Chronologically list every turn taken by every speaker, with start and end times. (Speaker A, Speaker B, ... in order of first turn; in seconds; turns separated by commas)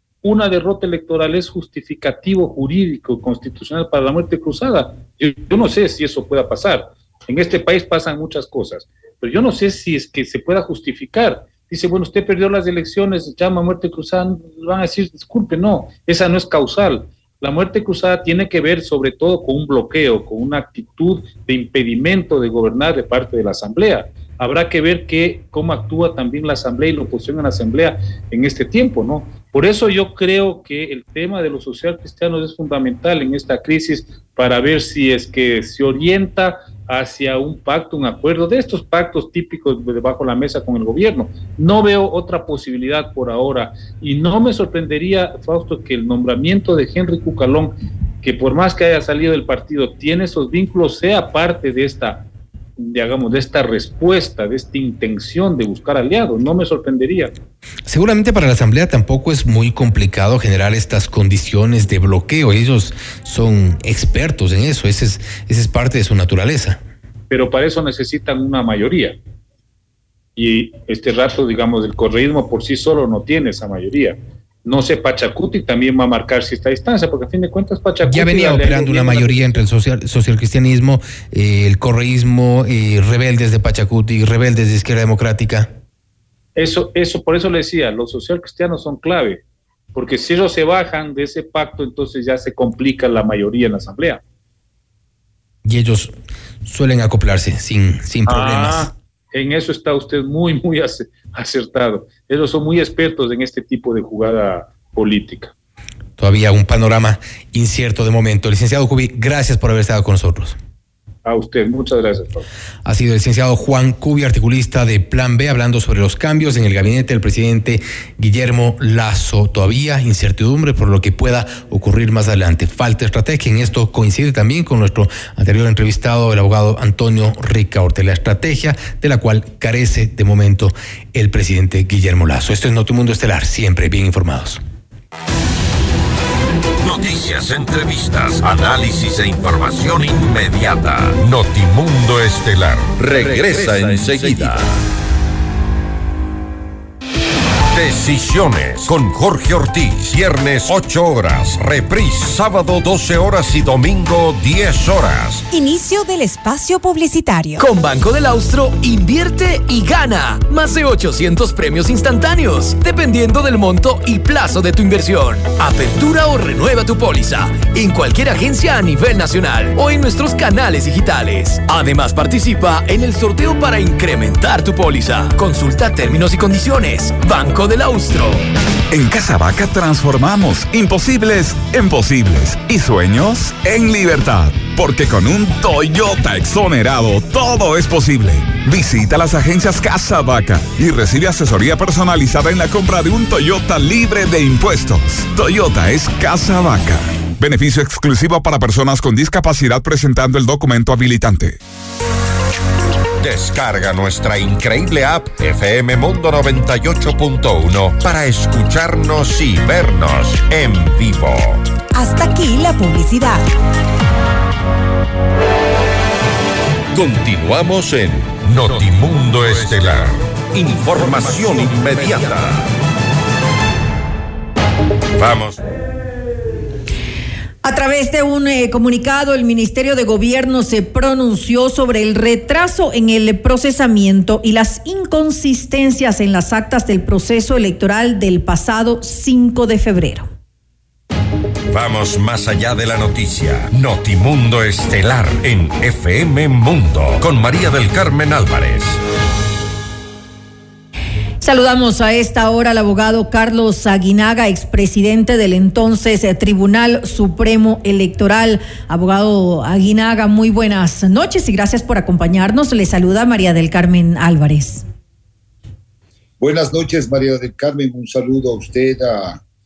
Speaker A: 0.2-52.2, Speaker A: 52.8-57.3, Speaker B: 57.9-66.8, Speaker A: 67.3-69.2, Speaker A: 70.4-79.6, Speaker B: 78.1-85.7, Speaker A: 86.6-89.4, Speaker A: 89.9-94.2, Speaker B: 95.6-96.1, Speaker B: 96.6-98.9, Speaker A: 98.3-105.5, Speaker B: 106.2-110.6, Speaker A: 111.2-112.5, Speaker B: 112.8-134.6, Speaker C: 136.8-144.7, Speaker C: 147.7-155.4, Speaker D: 155.5-157.6, Speaker E: 157.6-178.4, Speaker F: 178.9-201.6, Speaker C: 203.2-211.6, Speaker D: 211.9-213.4, Speaker C: 216.9-222.6, Speaker C: 225.2-225.6, Speaker G: 227.6-240.3, Speaker C: 241.7-249.0, Speaker G: 251.4-264.9, Speaker H: 266.4-269.4